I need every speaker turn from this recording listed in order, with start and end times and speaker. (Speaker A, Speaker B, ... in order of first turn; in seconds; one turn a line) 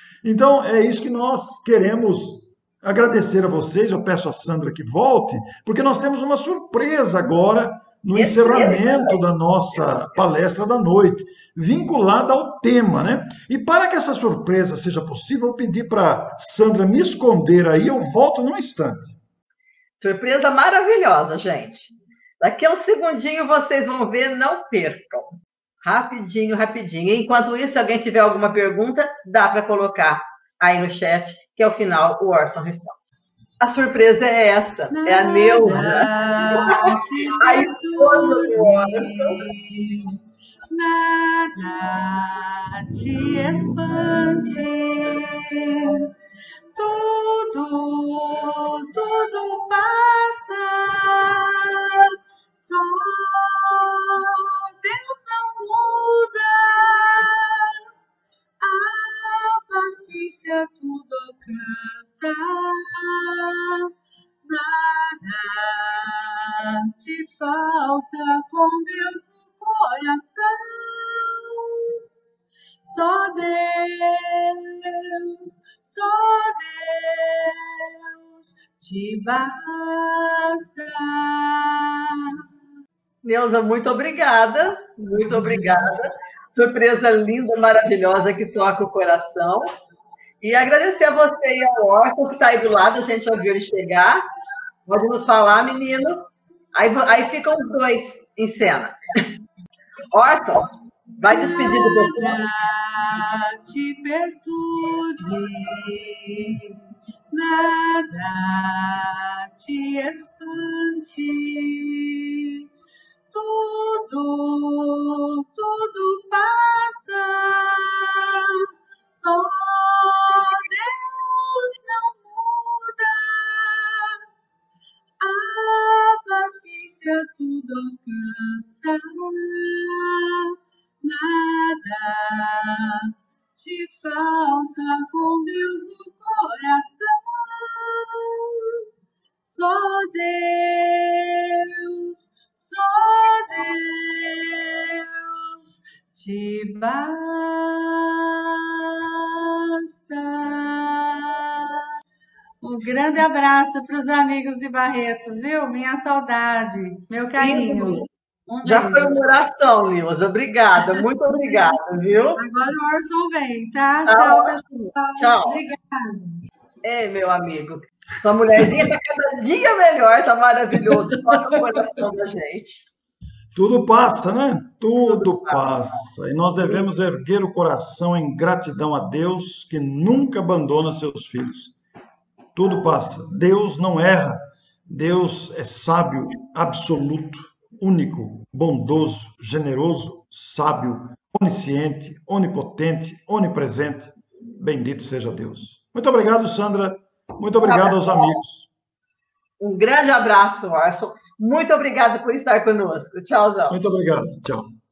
Speaker A: 0.2-19.2
Speaker B: 8.1-9.2
Speaker B: 20.0-33.0
Speaker B: 33.6-39.4
Speaker C: 34.9-40.2
Speaker C: 40.7-46.1
Speaker C: 46.8-57.8
Speaker C: 58.6-63.9
Speaker C: 64.5-72.0
Speaker C: 72.8-82.4
Speaker B: 83.2-89.7
Speaker B: 90.4-94.2
Speaker B: 94.9-99.3
Speaker B: 100.1-100.7
Speaker B: 101.2-102.4
Speaker C: 101.3-106.8
Speaker C: 107.3-112.6
Speaker C: 113.3-124.2
Speaker C: 125.2-138.9
Speaker C: 139.4-151.8
Speaker C: 152.6-159.1
Speaker B: 157.4-158.1
Speaker B: 158.6-162.4
Speaker C: 160.8-161.8
Speaker C: 162.4-166.4
Speaker B: 164.1-165.6
Speaker B: 166.8-172.9
Speaker A: 173.5-181.7
Speaker B: 175.0-175.7
Speaker A: 182.6-198.7
Speaker B: 197.6-198.4
Speaker B: 199.6-203.8
Speaker A: 203.7-204.7